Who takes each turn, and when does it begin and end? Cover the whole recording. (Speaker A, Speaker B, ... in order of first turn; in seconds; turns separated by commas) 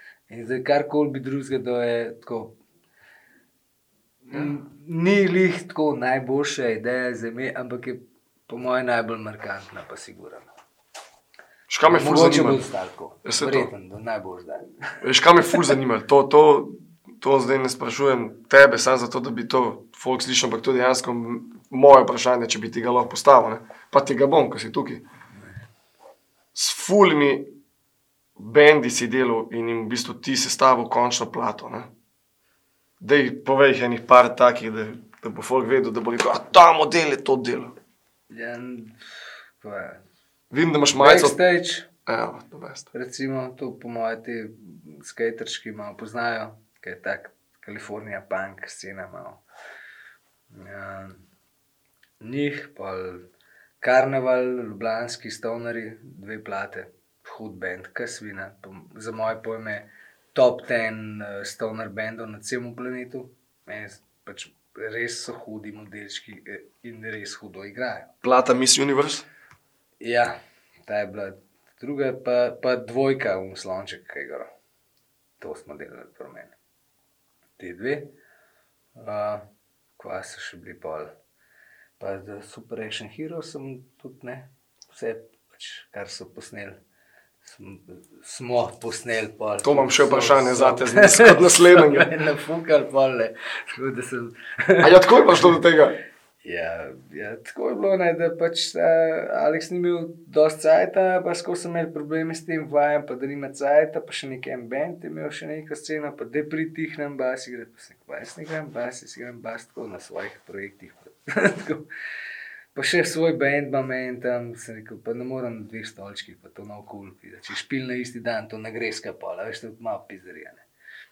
Speaker A: 0.3-2.5, Speaker A: 4.2-10.5, Speaker B: 11.7-12.6, Speaker A: 11.8-15.0, Speaker B: 13.2-13.7, Speaker B: 15.0-25.0, Speaker B: 26.5-27.5, Speaker B: 28.4-31.9, Speaker B: 33.0-37.7, Speaker A: 38.3-39.0, Speaker A: 39.6-40.0, Speaker B: 40.5-41.4, Speaker A: 40.9-41.9, Speaker B: 42.0-42.9, Speaker A: 42.9-49.4, Speaker A: 50.5-51.2, Speaker A: 52.2-53.2, Speaker A: 53.8-68.1, Speaker B: 68.2-69.2, Speaker A: 70.0-74.5, Speaker A: 75.4-76.5, Speaker A: 77.6-78.1, Speaker A: 79.0-79.4, Speaker A: 80.0-81.1, Speaker A: 82.0-86.8, Speaker A: 87.4-95.5, Speaker B: 89.6-92.1, Speaker B: 94.8-96.0, Speaker A: 96.4-111.8, Speaker A: 112.7-120.6